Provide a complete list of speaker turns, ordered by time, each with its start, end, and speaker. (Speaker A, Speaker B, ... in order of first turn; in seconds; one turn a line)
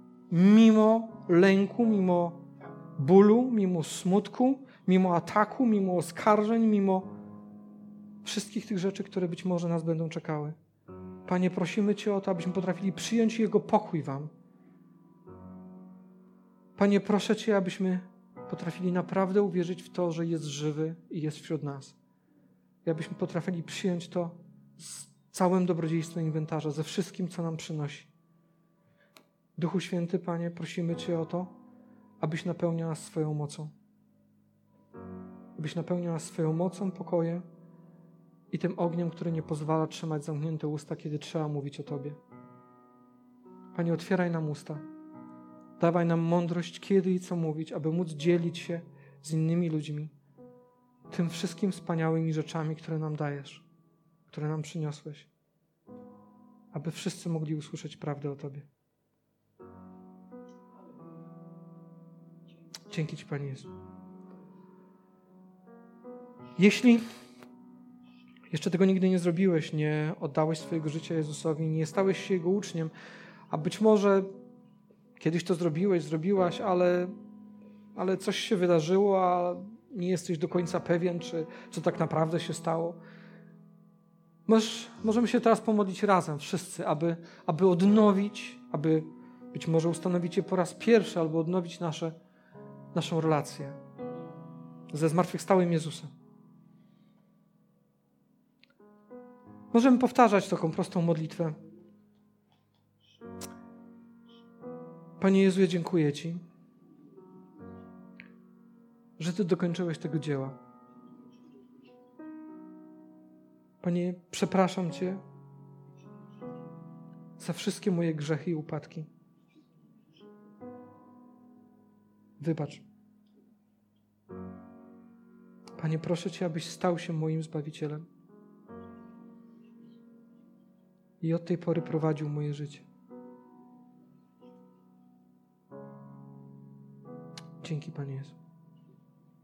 Speaker A: 0.3-2.4
Speaker A: 3.0-7.1
Speaker A: 8.2-10.6
Speaker A: 11.2-14.3
Speaker A: 16.8-21.9
Speaker A: 22.8-28.1
Speaker A: 29.6-31.5
Speaker A: 32.2-33.7
Speaker A: 35.6-37.4
Speaker A: 38.5-42.2
Speaker A: 43.7-44.8
Speaker A: 45.8-50.1
Speaker A: 51.1-53.6
Speaker A: 54.3-55.3
Speaker A: 56.7-58.7
Speaker A: 62.9-63.7
Speaker A: 66.6-67.0
Speaker A: 68.5-72.9
Speaker A: 73.5-74.3
Speaker A: 75.2-77.1
Speaker A: 77.9-83.0
Speaker A: 84.5-92.1
Speaker A: 92.9-93.8
Speaker A: 94.9-96.1
Speaker A: 99.7-101.6
Speaker A: 105.2-106.4
Speaker A: 109.2-110.6
Speaker A: 113.8-115.2
Speaker A: 117.4-119.1
Speaker A: 122.4-122.8
Speaker A: 125.8-128.0
Speaker A: 131.2-132.8
Speaker A: 137.6-138.3